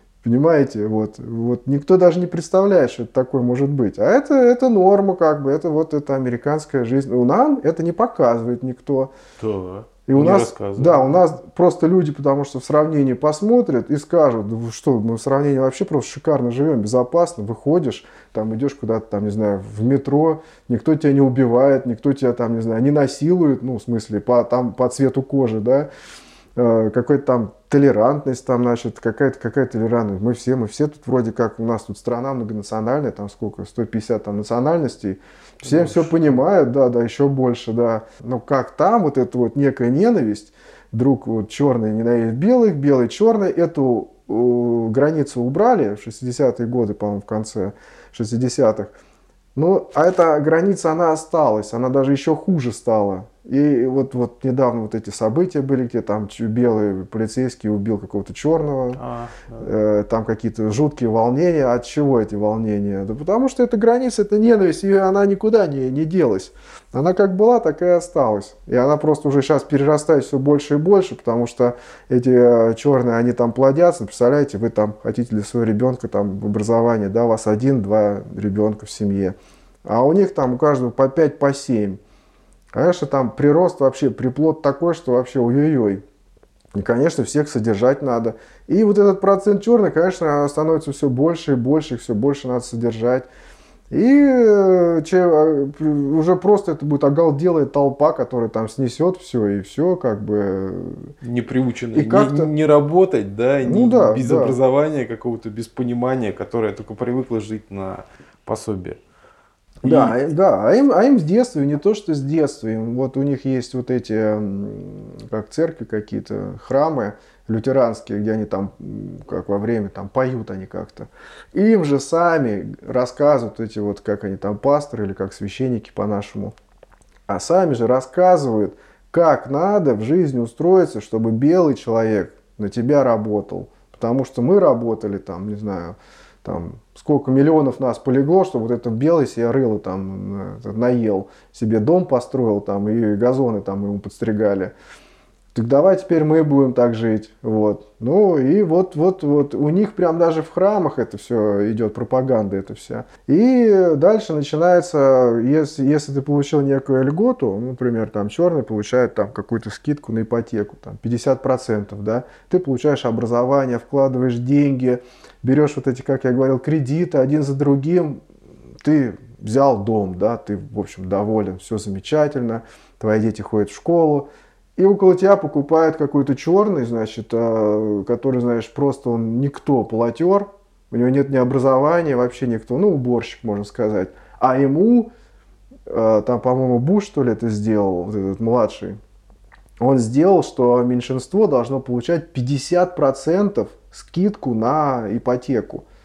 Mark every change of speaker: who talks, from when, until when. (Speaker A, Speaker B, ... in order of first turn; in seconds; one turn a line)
Speaker A: 0.2-9.1
Speaker B: 9.4-11.2
Speaker A: 10.1-25.9
Speaker A: 26.6-48.9
Speaker B: 35.6-36.1
Speaker A: 49.5-59.0
Speaker B: 59.0-59.7
Speaker A: 59.6-82.0
Speaker A: 82.7-86.0
Speaker A: 86.8-93.3
Speaker A: 93.9-101.1
Speaker B: 101.2-109.0
Speaker A: 101.9-102.5
Speaker A: 103.6-104.6
Speaker A: 109.8-126.5
Speaker B: 109.8-110.2
Speaker A: 127.3-144.7
Speaker A: 145.5-168.2
Speaker A: 168.8-185.1
Speaker A: 185.9-189.0
Speaker A: 189.8-195.8